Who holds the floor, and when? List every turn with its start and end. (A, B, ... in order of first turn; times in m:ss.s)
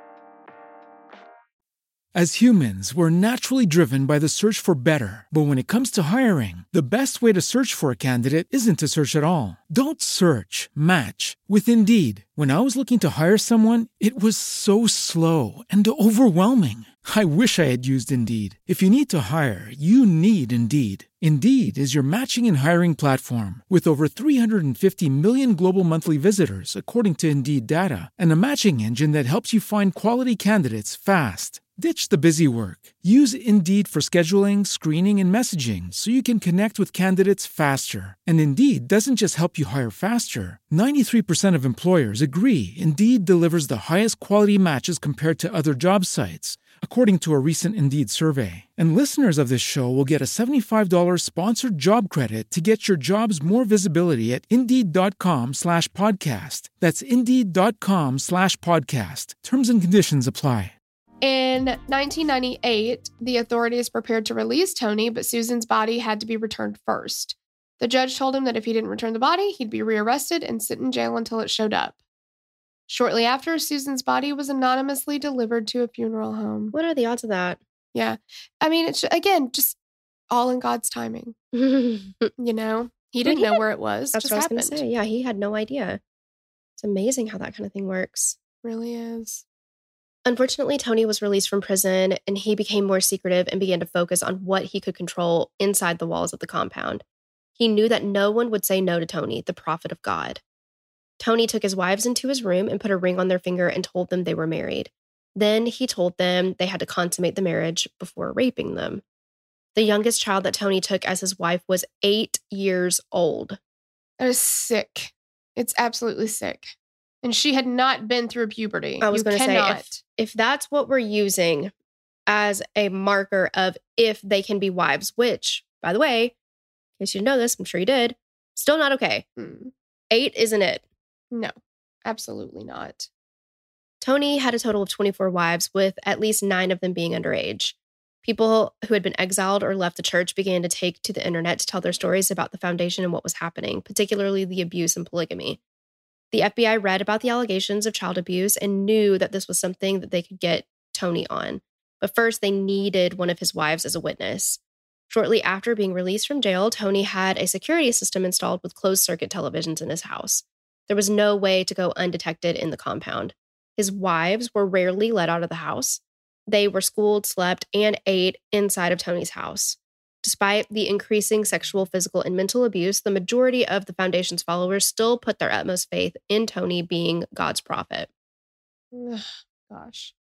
0:02.1-1:00.8 A
1:01.2-1:12.0 B
1:12.9-1:16.8 B
1:16.7-1:17.6 C
1:17.9-1:19.8 B
1:20.3-1:21.4 B
1:21.5-1:22.3 C
1:22.4-1:24.8 B
1:23.2-1:23.6 C
1:24.2-1:26.0 C
1:26.8-1:28.4 C
1:28.6-1:29.4 B
1:30.3-1:37.0 C
1:37.6-1:40.4 C
1:41.2-1:49.0 C
1:49.8-1:53.6 C
1:54.2-2:00.0 B
1:59.0-2:01.7 C
2:02.3-2:06.4 C
2:07.0-2:09.2 C
2:09.4-2:09.7 B
2:10.1-2:10.8 C
2:11.3-2:13.1 B
2:14.0-2:25.6 C
2:26.3-2:58.1 C
2:58.9-3:00.1 B